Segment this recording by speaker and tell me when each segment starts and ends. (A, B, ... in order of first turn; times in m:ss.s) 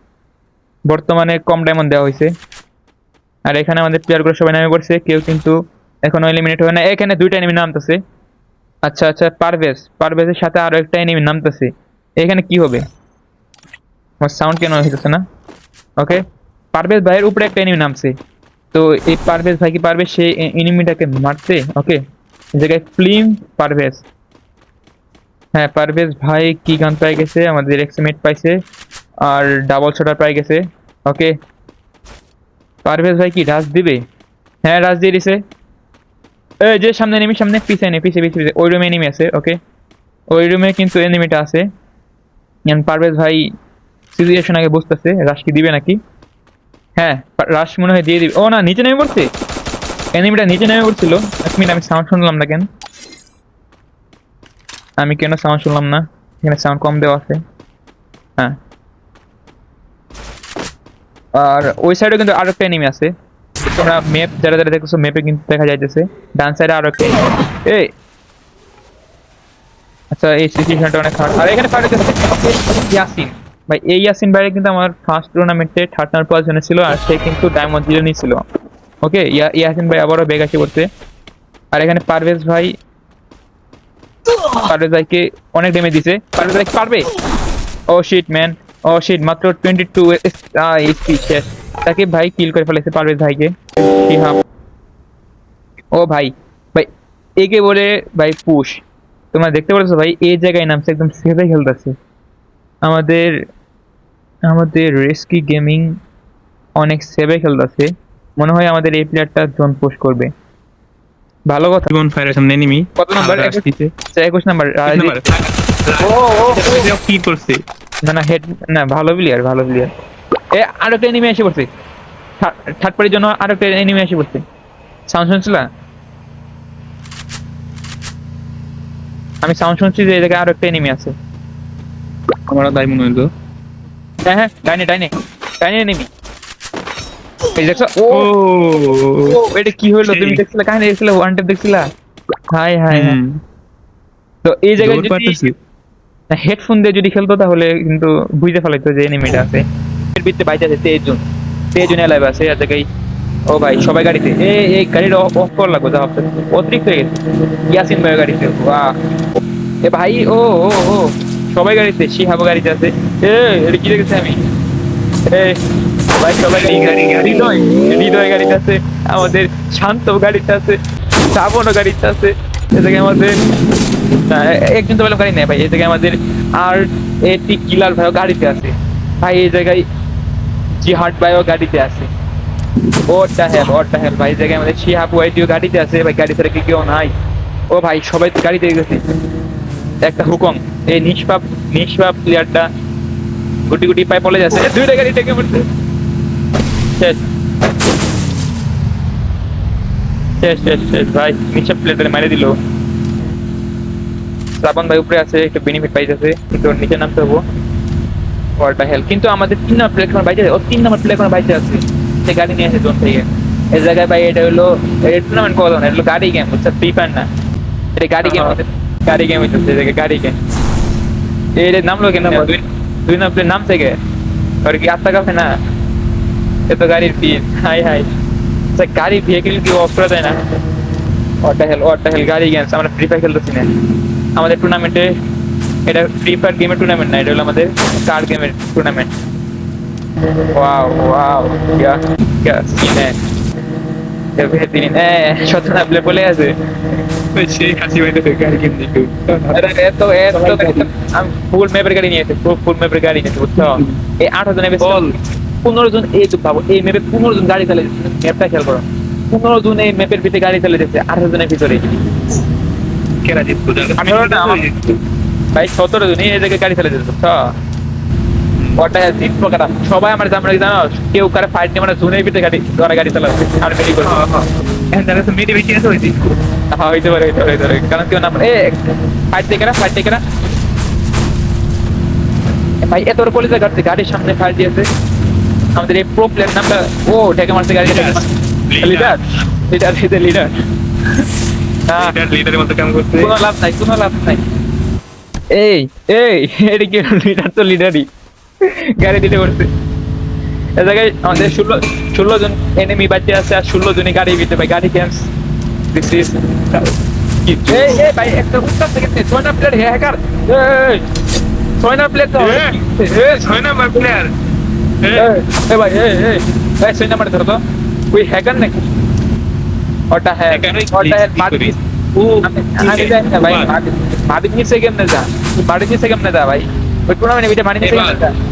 0:00.9-0:02.3 A
0:03.5-0:08.0 A
0:08.9-0:12.8 A
0:14.2-0:15.2 A
0:16.7-0:18.1 A
0:18.7-0:22.0 A
0:22.6-0:24.1 A
0:25.6-0:28.6 A
0:29.2-0:31.4 A
0:32.8-0:34.0 A
0:34.6-0:35.4 A
0:36.6-0:39.6 A
0:40.3-0:41.6 A
0:42.7-0:43.4 A
0:44.1-0:46.0 A
0:47.0-0:49.3 A
0:50.2-0:52.7 A
0:55.0-0:57.4 A
1:01.4-1:03.1 A
1:03.8-1:07.9 A
1:10.1-1:18.4 A
1:19.0-1:20.9 A
1:21.7-1:22.7 A
1:24.7-1:27.1 A
1:27.9-1:34.4 A
1:36.0-1:36.9 A
1:37.4-1:41.9 A
1:42.8-1:43.3 A
1:44.5-1:46.0 A
1:46.8-1:50.3 A
1:51.5-1:51.9 A
1:51.9-1:53.9 B
1:53.0-1:55.2 A
1:54.9-1:57.6 B
1:56.0-1:56.9 A
1:58.0-1:59.9 A
2:00.5-2:01.7 A
2:02.4-2:04.4 A
2:05.1-2:05.7 A
2:09.4-2:11.1 A
2:12.5-2:13.2 A
2:14.3-2:15.1 A
2:15.6-2:16.1 A
2:17.6-2:18.3 A
2:18.1-2:19.4 B
2:19.3-2:21.9 A
2:20.0-2:20.4 B
2:22.5-2:23.2 A
2:22.9-2:23.4 B
2:24.4-2:25.4 A
2:24.8-2:25.6 B
2:26.3-2:29.6 A
2:30.2-2:31.2 A
2:31.7-2:32.9 A
2:33.5-2:39.0 A
2:39.9-2:44.4 A
2:45.3-2:45.6 A
2:46.2-2:50.8 A
2:46.4-2:47.5 B
2:51.3-2:53.3 A
2:54.3-2:59.8 A
3:00.8-3:02.1 A
3:03.1-3:07.1 A
3:07.7-3:09.0 A
3:10.0-3:12.7 A
3:13.7-3:15.7 A
3:20.4-3:22.6 A
3:24.6-3:27.4 A
3:28.6-3:37.3 A
3:38.0-3:40.4 A
3:38.2-3:38.6 B
3:41.6-3:44.0 A
3:42.2-3:42.5 B
3:44.6-3:45.5 A
3:46.7-3:48.1 A
3:48.8-3:50.4 A
3:51.4-3:53.7 A
3:54.4-3:55.1 A
3:55.9-3:59.1 A
4:00.5-4:03.1 A
4:04.4-4:06.6 A
4:07.3-4:09.7 B
4:09.5-4:15.1 A
4:10.3-4:10.9 B
4:13.8-4:14.0 B
4:14.8-4:15.2 B
4:15.6-4:22.0 A
4:23.2-4:25.0 B
4:24.0-4:24.6 A
4:25.6-4:27.5 A
4:28.6-4:28.8 B
4:28.8-4:34.2 A
4:34.0-4:36.4 B
4:36.7-4:38.8 A
4:39.3-4:40.2 A
4:42.8-4:44.9 A
4:45.8-4:48.3 A
4:47.8-4:49.2 B
4:48.8-4:50.5 A
4:51.9-4:52.2 A
4:52.0-4:53.3 B
4:53.2-4:54.4 A
4:55.5-4:58.1 A
4:58.6-4:59.7 A
5:00.8-5:05.3 A
5:05.9-5:06.9 A
5:07.5-5:08.0 B
5:07.6-5:11.0 A
5:11.8-5:13.4 A
5:12.4-5:14.3 B
5:15.0-5:15.3 B
5:15.1-5:17.6 A
5:18.1-5:18.8 A
5:20.1-5:21.7 A
5:20.5-5:23.7 B
5:22.4-5:28.3 A
5:27.8-5:28.2 B